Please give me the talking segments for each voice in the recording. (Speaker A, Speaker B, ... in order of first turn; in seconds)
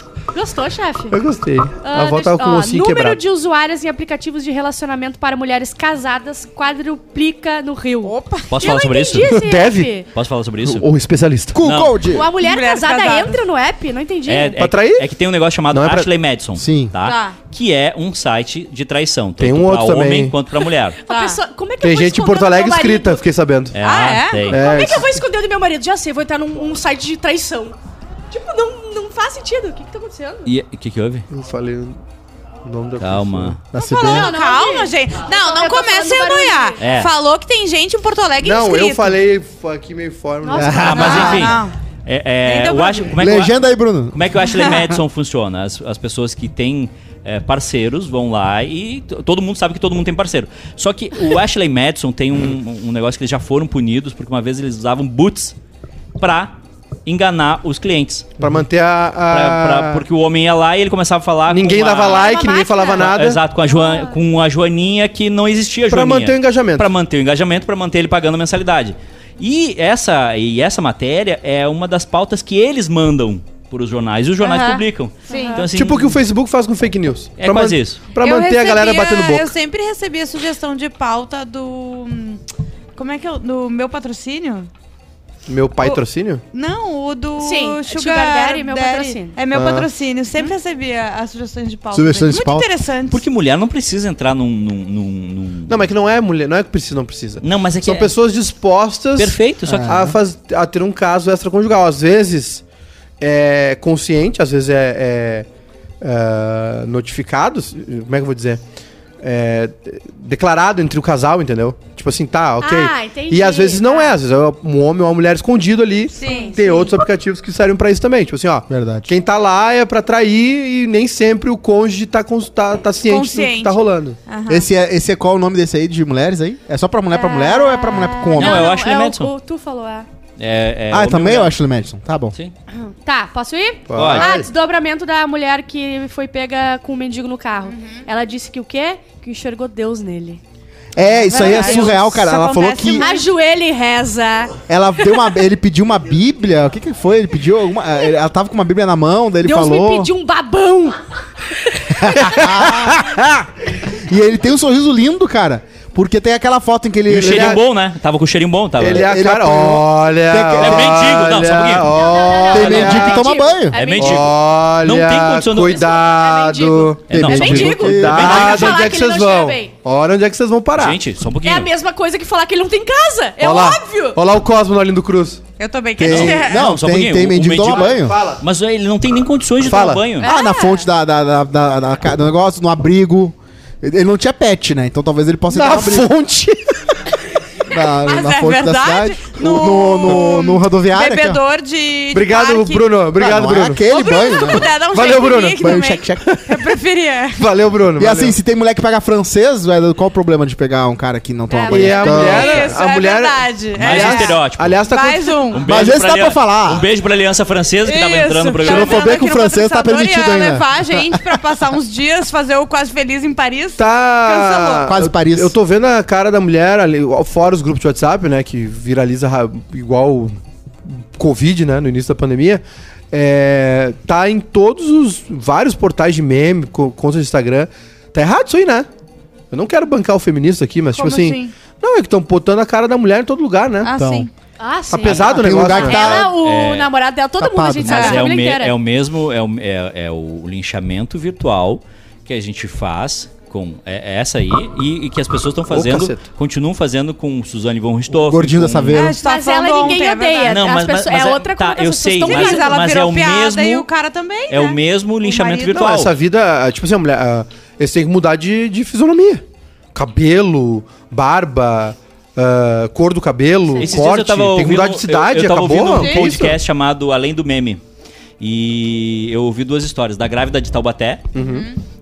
Speaker A: 0.3-1.2, 1.8-10.1, 12.1-14.6, 21.1-23.2, 24.5-27.8, 28.3-30.5, 33.9-36.8, 40.4-41.5, 62.0-63.1, 63.6-64.2, 75.3-75.7, 87.4-89.4, 112.6-114.2, 116.2-116.9, 127.1-130.1, 132.8-140.4, 141.3-141.9, 142.9-144.6, 149.4-151.0, 151.6-152.7, 161.9-164.3, 165.7-169.7, 171.4-174.2, 180.2-180.9, 201.5-202.2, 234.6-238.8, 249.2-252.8
Speaker B: 1.1-3.2, 9.2-9.9, 10.7-11.6, 14.6-15.1, 15.7-16.1, 19.4-20.4, 21.8-23.8, 24.5-25.2, 31.3-32.0, 32.6-33.6, 38.4-41.5, 58.4-60.0, 61.5-63.4, 65.9-66.9, 75.7-79.5, 85.5-86.4, 89.5-89.9, 95.7-102.6, 103.2-105.5, 106.0-108.6, 109.2-124.2, 133.9-134.5, 152.4-153.4, 157.1-157.6, 158.8-163.3, 164.0-171.0, 173.4-175.4, 177.7-178.4, 179.6-180.0, 185.5-186.8, 192.1-196.7, 197.4-198.4, 201.7-205.9, 213.8-220.3, 220.9-228.9, 229.5-233.9, 234.9-236.3, 245.7-246.2, 255.7-266.6, 271.3-271.7
Speaker C: 8.0-8.8, 12.4-13.4, 17.0-17.4, 21.1-21.4, 23.8-24.5, 33.8-39.2, 40.9-41.8, 42.4-43.1, 74.4-75.7, 78.2-82.4, 83.0-84.7, 86.5-93.2, 116.2-116.6, 123.0-124.7, 137.7-138.1, 141.2-143.3, 175.6-176.7, 188.1-192.9, 193.8-197.5, 201.9-205.7, 207.8-214.9, 230.9-231.5, 233.8-234.3, 237.9-238.2, 248.9-250.7, 252.2-255.9, 265.9-266.4, 271.4-271.8
Speaker D: 8.5-9.4, 10.1-10.9, 11.6-12.0, 14.3-21.0, 23.7-24.6, 30.4-31.3, 33.0-33.6, 36.8-37.1, 40.8-55.5, 56.2-58.3, 59.3-62.3, 62.9-76.2, 77.4-78.1, 93.1-95.9, 97.4-98.1, 99.2-100.0, 128.3-129.3, 130.4-131.5, 133.9-134.3, 157.1-159.1, 160.6-162.0, 162.6-163.0, 163.7-165.9, 167.1-169.0, 170.8-171.7, 176.0-180.3, 203.8-204.8, 205.5-209.1, 236.3-236.9, 237.8-249.1, 250.4-253.9, 254.5-256.1, 263.8-267.8, 268.4-271.4
Speaker E: 11.5-12.3, 16.6-16.9, 33.7-34.3, 40.5-41.5, 43.2-45.0, 91.9-92.7, 99.7-100.2, 118.7-119.1, 124.5-128.7, 130.9-132.3, 140.9-143.1, 144.7-150.1, 151.9-153.3, 153.8-157.6, 158.9-161.0, 162.5-163.8, 167.1-168.5, 176.0-178.2, 180.2-186.1, 187.7-191.4, 193.2-194.7, 195.6-196.2, 198.0-202.6, 205.7-206.9, 208.6-211.4, 214.9-215.6, 233.9-234.3, 235.1-236.3, 237.4-238.1, 248.1-249.2